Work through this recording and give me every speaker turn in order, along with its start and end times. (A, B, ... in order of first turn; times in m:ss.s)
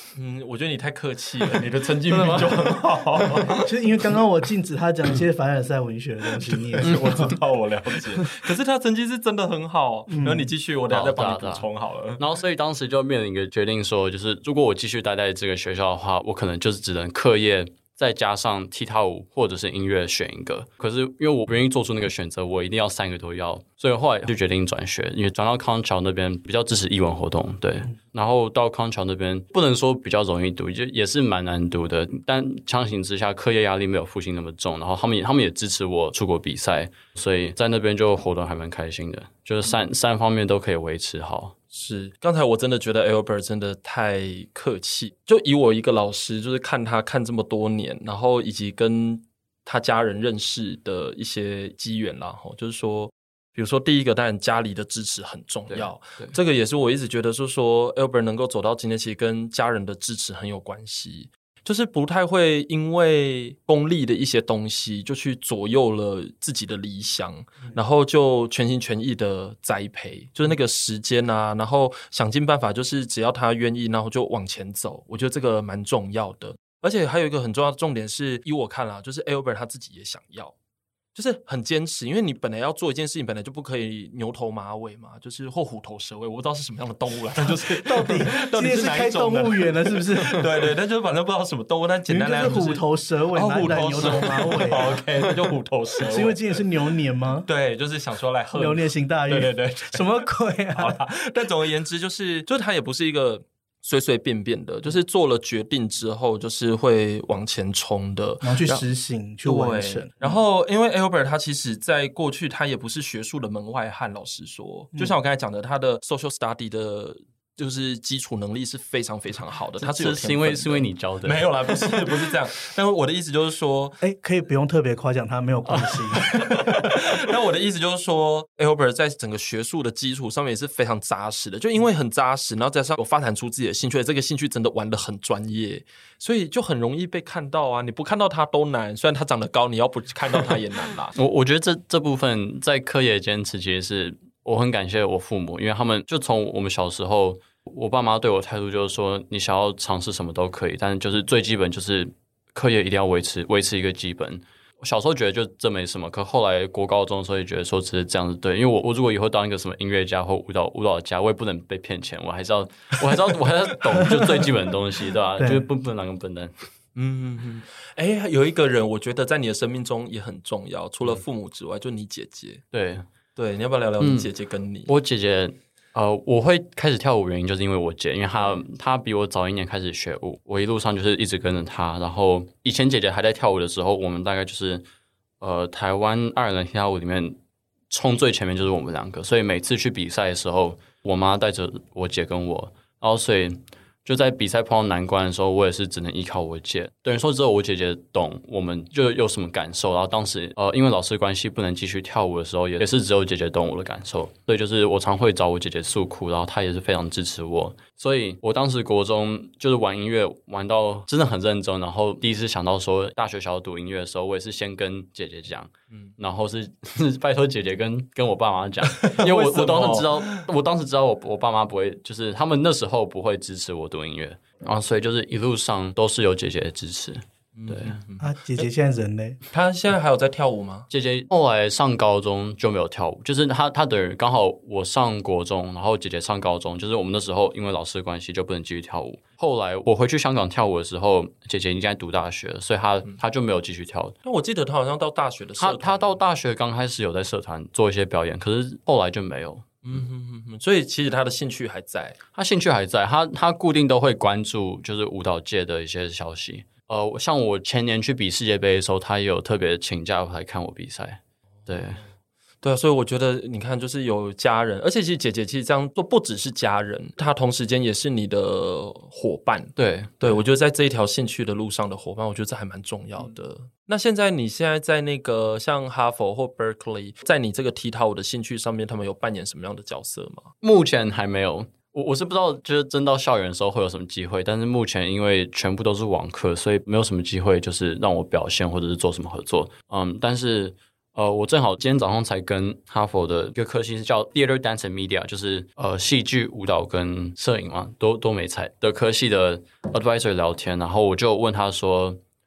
0:00.1-0:03.7 A
0:02.1-0:02.7 B
0:03.6-0:07.4 C
0:06.6-0:12.2 A
0:10.1-0:10.5 C
0:10.9-0:41.5 B
0:41.7-1:20.5 A
0:55.7-0:56.4 B
1:21.1-1:36.6 A
1:27.5-1:30.6 C
1:32.1-1:35.0 C
1:36.0-1:37.5 C
1:37.4-1:48.9 A
1:38.5-1:41.0 C
1:48.4-1:50.3 C
1:49.4-2:04.0 A
1:59.8-2:02.1 B
2:04.0-2:06.3 C
2:05.6-2:06.3 B
2:06.2-2:21.2 A
2:21.2-2:46.5 B
2:44.1-2:44.5 C
2:45.4-2:45.6 C
2:46.9-2:52.6 A
2:52.7-2:53.0 B
2:53.4-2:54.9 A
2:54.0-2:54.3 B
2:54.9-3:04.8 B
3:05.4-3:07.4 B
3:07.9-3:48.0 B
3:38.9-3:40.5 A
3:47.6-3:48.3 A
3:48.2-3:49.4 C
3:49.5-3:50.9 A
3:50.9-4:04.2 B
4:04.2-4:06.2 A
4:05.6-4:09.8 B
4:09.8-4:12.2 A
4:12.3-4:22.0 B
4:22.6-4:40.5 A
4:29.8-4:30.4 B
4:40.6-5:02.2 B